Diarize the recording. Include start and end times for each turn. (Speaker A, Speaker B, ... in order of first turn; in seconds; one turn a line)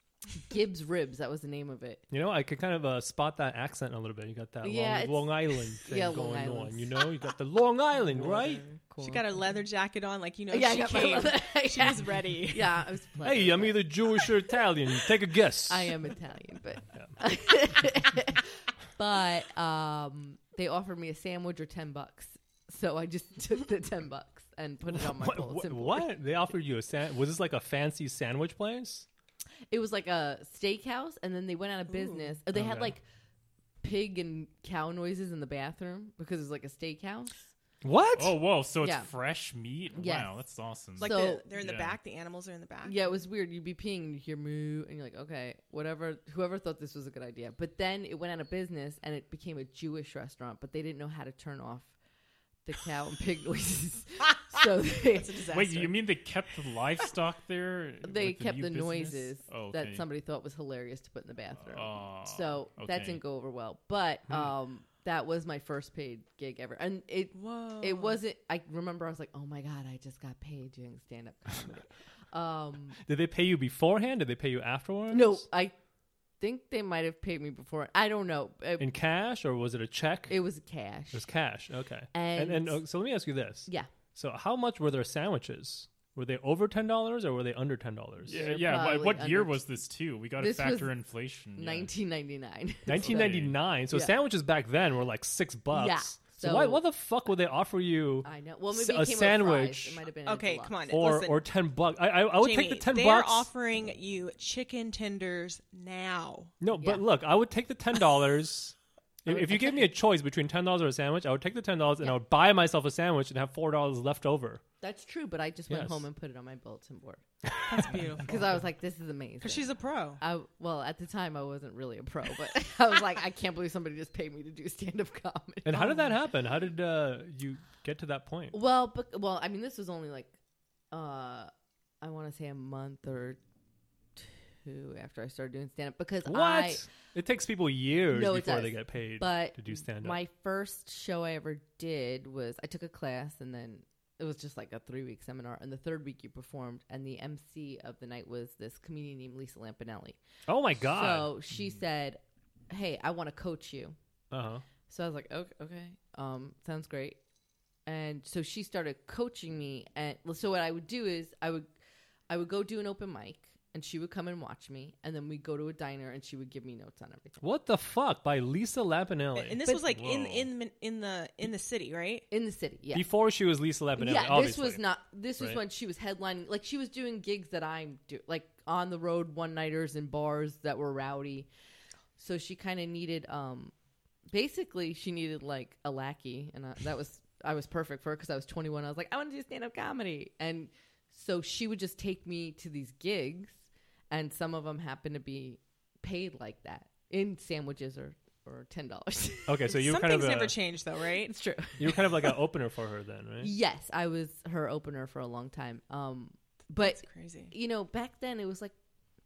Speaker A: 0.4-2.0
Speaker B: 2.1-8.6
Speaker A: 4.6-7.1
Speaker A: 8.0-9.3
Speaker C: 9.0-12.7
Speaker A: 10.5-14.5
Speaker B: 13.2-15.9
Speaker A: 15.7-26.1
Speaker B: 24.9-29.1
Speaker A: 29.7-33.0
Speaker C: 31.9-32.4
Speaker B: 32.5-32.9
Speaker A: 33.8-37.5
Speaker B: 37.8-38.4
Speaker D: 38.1-42.0
Speaker A: 38.8-39.1
Speaker A: 39.9-40.3
Speaker A: 41.0-41.4
Speaker C: 41.0-43.0
Speaker A: 42.8-51.9
Speaker A: 52.6-55.4
Speaker C: 55.1-55.9
Speaker D: 55.5-60.0
Speaker A: 58.0-73.0
Speaker D: 61.6-63.2
Speaker C: 67.3-68.2
Speaker B: 73.0-75.4
Speaker A: 75.1-75.7
Speaker A: 76.4-78.9
Speaker B: 78.8-80.3
Speaker A: 80.3-81.3
Speaker B: 81.1-88.6
Speaker A: 82.1-82.8
Speaker D: 88.3-91.9
Speaker A: 88.3-89.6
Speaker A: 90.4-90.9
Speaker A: 91.5-94.1
Speaker B: 92.8-100.0
Speaker D: 93.0-93.6
Speaker A: 95.7-96.8
Speaker A: 98.2-100.8
Speaker C: 100.2-101.4
Speaker B: 100.9-103.5
Speaker C: 102.4-106.5
Speaker B: 106.6-114.6
Speaker A: 106.8-107.0
Speaker A: 109.2-109.9
Speaker A: 114.8-117.2
Speaker B: 115.7-116.0
Speaker C: 117.7-118.4
Speaker A: 118.2-126.1
Speaker C: 119.4-120.2
Speaker B: 125.6-128.6
Speaker A: 128.5-130.3
Speaker A: 130.9-133.4
Speaker A: 134.2-136.8
Speaker B: 136.2-140.2
Speaker A: 138.1-150.2
Speaker B: 150.5-151.3
Speaker A: 150.7-153.9
Speaker B: 154.3-154.6
Speaker A: 154.9-157.2
Speaker A: 157.8-161.7
Speaker A: 162.3-167.4
Speaker B: 167.4-170.5
Speaker C: 169.3-172.3
Speaker A: 169.7-169.9
Speaker A: 172.3-173.1
Speaker B: 172.9-174.8
Speaker A: 173.9-181.5
Speaker A: 182.2-183.7
Speaker A: 184.3-199.8
Speaker B: 199.5-200.6
Speaker C: 199.7-201.4
Speaker A: 201.3-202.3
Speaker B: 201.8-203.5
Speaker A: 203.4-208.7
Speaker C: 206.8-207.5